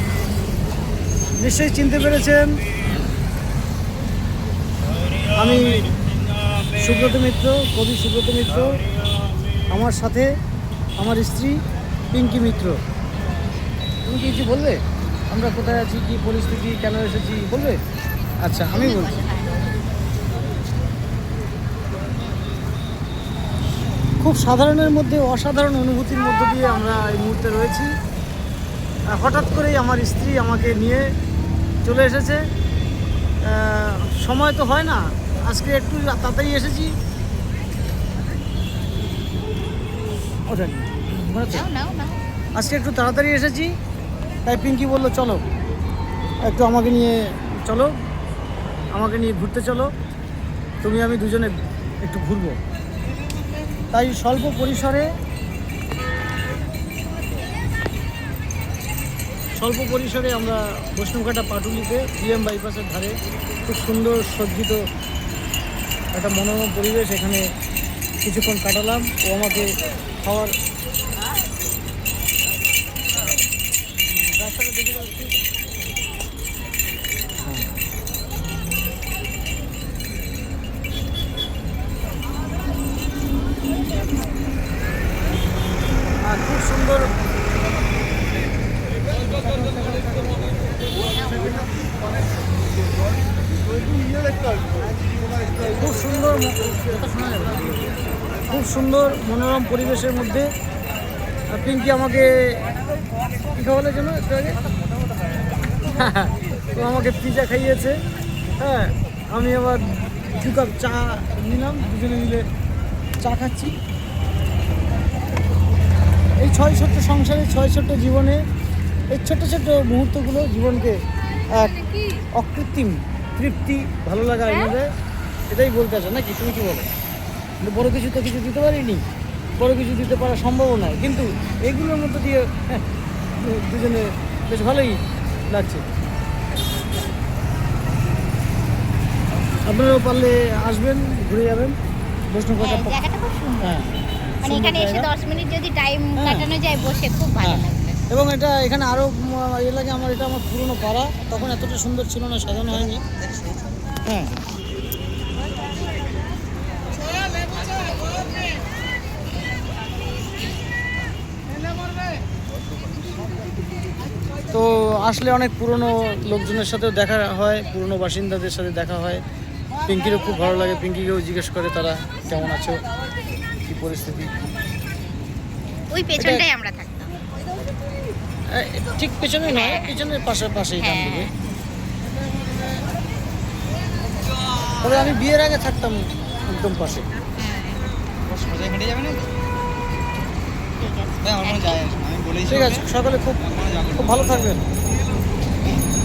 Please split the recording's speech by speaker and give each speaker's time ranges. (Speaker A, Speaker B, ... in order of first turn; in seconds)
Speaker A: 1.4-2.6, 5.3-5.8, 6.8-8.8, 9.7-10.3, 11.0-11.6, 12.1-12.8, 14.1-14.8, 15.3-17.8, 18.4-19.1, 24.2-27.9, 29.1-31.1, 31.9-32.4, 33.5-37.0, 40.5-41.7, 42.5-43.7, 44.5-45.4, 46.4-47.9, 48.9-49.9, 50.8-52.6, 53.9-55.1, 59.6-63.1, 63.7-64.8, 66.1-67.4, 68.2-70.5, 74.2-75.2, 77.5-77.8, 86.2-87.1, 89.6-90.1, 95.7-97.9, 98.5-100.5, 101.5-102.7, 103.5-104.6, 105.9-108.0, 108.6-112.4, 113.2-113.7, 116.4-118.4, 119.1-121.0, 121.5-121.8, 122.3-124.9, 125.5-126.9, 127.6-129.0, 129.6-132.8, 133.4-135.0, 135.5-135.8, 139.7-141.7, 142.3-143.0, 143.6-145.1, 146.2-146.5, 147.4-153.0, 154.1-154.3, 164.5-169.2, 169.8-172.8, 173.7-174.3, 176.2-176.4, 178.5-181.3, 184.8-187.1, 192.4-194.6
Speaker B: 18.7-19.7, 41.5-42.2, 91.1-91.7, 142.6-143.8, 144.4-148.0, 175.9-177.2, 179.4-180.0, 180.8-181.3, 187.4-187.8, 190.8-191.9
Speaker C: 188.3-189.3, 191.3-192.4